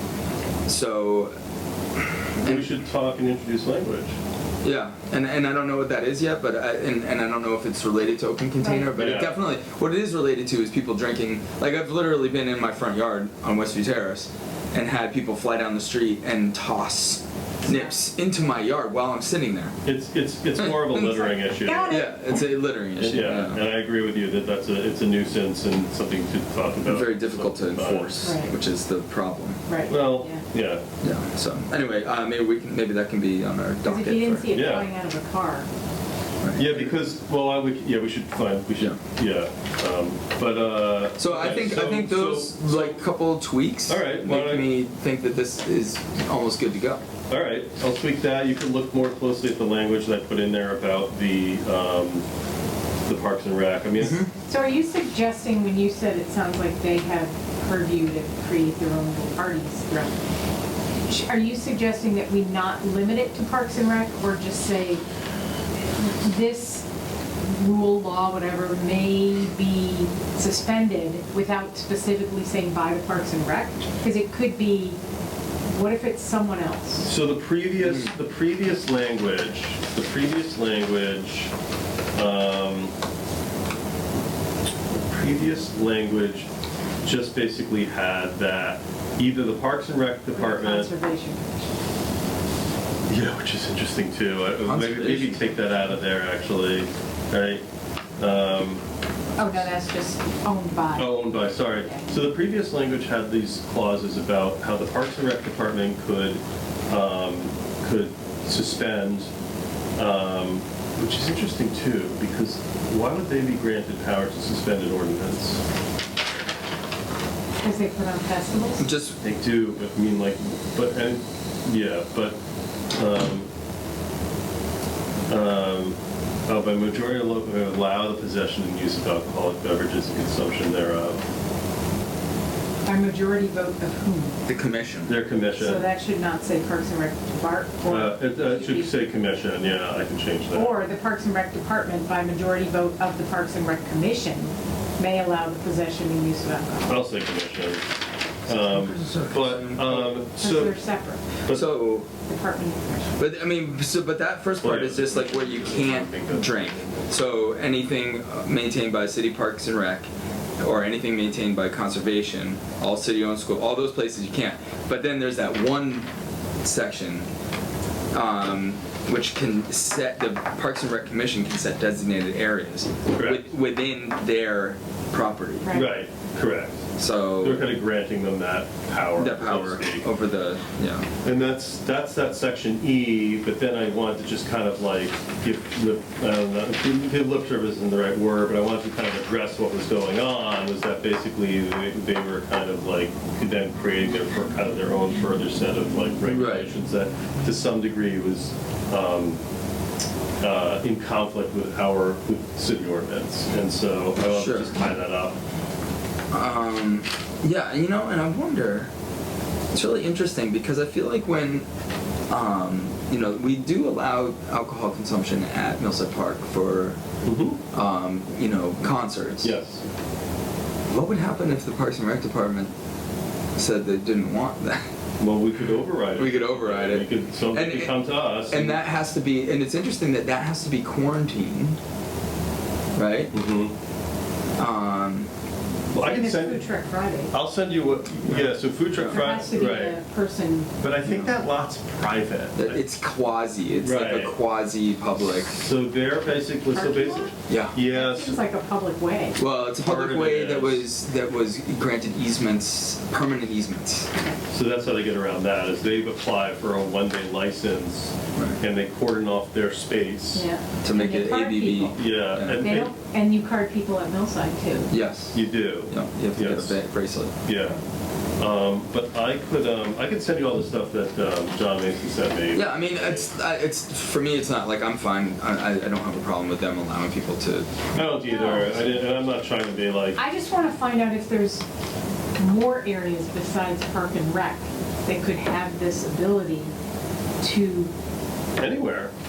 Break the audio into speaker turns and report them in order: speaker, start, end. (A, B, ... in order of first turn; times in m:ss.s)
0:00.6-0:01.3 A
0:02.4-0:02.7 A
0:02.4-0:04.2 B
0:04.6-0:19.8 A
0:08.6-0:08.9 C
0:08.9-0:09.3 B
0:17.6-0:17.9 C
0:19.8-0:22.1 B
0:20.5-0:21.4 A
0:21.6-0:22.1 C
0:21.9-0:23.6 A
0:23.0-0:28.3 B
0:26.8-0:29.6 A
0:28.2-0:28.5 C
0:29.7-0:30.4 C
0:29.9-0:30.8 B
0:31.0-0:34.5 A
0:33.8-0:35.7 C
0:34.5-0:34.9 B
0:36.4-0:36.9 A
0:36.6-0:43.0 B
0:41.2-0:47.0 A
0:43.9-0:44.7 B
0:47.3-0:52.2 B
0:53.0-0:54.2 B
0:54.0-0:54.3 A
0:54.4-1:00.2 C
1:01.1-1:05.0 C
1:06.0-1:06.8 C
1:07.4-1:15.0 C
1:15.7-1:17.1 C
1:17.0-1:21.5 B
1:17.8-1:18.1 A
1:22.1-1:22.9 B
1:24.9-1:26.5 B
1:27.0-1:30.9 B
1:30.3-1:31.7 C
1:33.1-1:37.6 B
1:34.6-1:35.4 A
1:38.2-1:38.8 B
1:39.4-1:42.1 C
1:41.0-1:49.3 B
1:50.0-1:55.6 B
1:57.6-1:58.8 C
1:58.8-1:59.2 A
1:59.2-2:02.4 B
2:02.9-2:03.5 B
2:05.3-2:11.2 B
2:12.8-2:14.4 C
2:14.4-2:15.1 A
2:15.1-2:15.9 B
2:15.6-2:18.9 C
2:17.8-2:20.8 B
2:20.5-2:26.9 C
2:26.9-2:27.8 B
2:28.5-2:30.7 B
2:28.5-2:30.2 A
2:30.4-2:31.2 C
2:31.5-2:32.1 A
2:32.2-2:33.1 C
2:33.1-2:46.1 A
2:34.6-2:37.1 B
2:46.6-2:47.3 A
2:48.1-2:55.7 A
2:53.1-2:53.4 B
2:55.6-2:56.0 C
2:55.7-2:56.8 B
2:57.0-2:57.7 A
2:57.4-3:00.0 B
2:59.2-3:01.1 A
3:01.2-3:19.4 B
3:16.2-3:16.7 A
3:20.4-3:25.4 B
3:24.3-3:24.7 A
3:26.3-3:28.9 A
3:29.7-3:31.6 A
3:32.3-3:37.0 A
3:37.2-3:37.6 B
3:37.7-3:39.6 A
3:39.4-3:39.8 B
3:40.9-3:42.7 A
3:43.6-3:44.8 A
3:45.2-3:48.8 B
3:46.1-3:47.9 A
3:48.5-3:51.8 A
3:53.0-3:53.3 A
3:53.3-3:53.7 B
3:54.6-3:55.3 A
3:55.9-3:56.6 B
3:55.9-3:57.3 C
3:57.3-4:00.0 B
3:58.2-3:59.2 A
3:59.0-4:00.7 C
4:00.8-4:02.9 B
4:01.0-4:01.3 A
4:02.6-4:05.6 A
4:03.8-4:04.4 B
4:05.4-4:08.4 B
4:06.7-4:07.3 C
4:07.5-4:07.8 A
4:07.9-4:09.4 C
4:09.4-4:14.1 A
4:09.8-4:10.8 B
4:14.1-4:14.4 C
4:14.5-4:20.4 B
4:20.3-4:24.9 C
4:20.8-4:22.7 A
4:21.9-4:22.9 B
4:24.9-4:27.3 A
4:25.3-4:26.8 B
4:27.4-4:27.8 B
4:28.4-4:33.3 B
4:32.5-4:37.7 A
4:37.9-4:40.2 B
4:38.3-4:38.8 C
4:40.2-4:41.6 C
4:42.4-4:46.7 C
4:47.4-4:47.9 C
4:48.6-4:49.1 B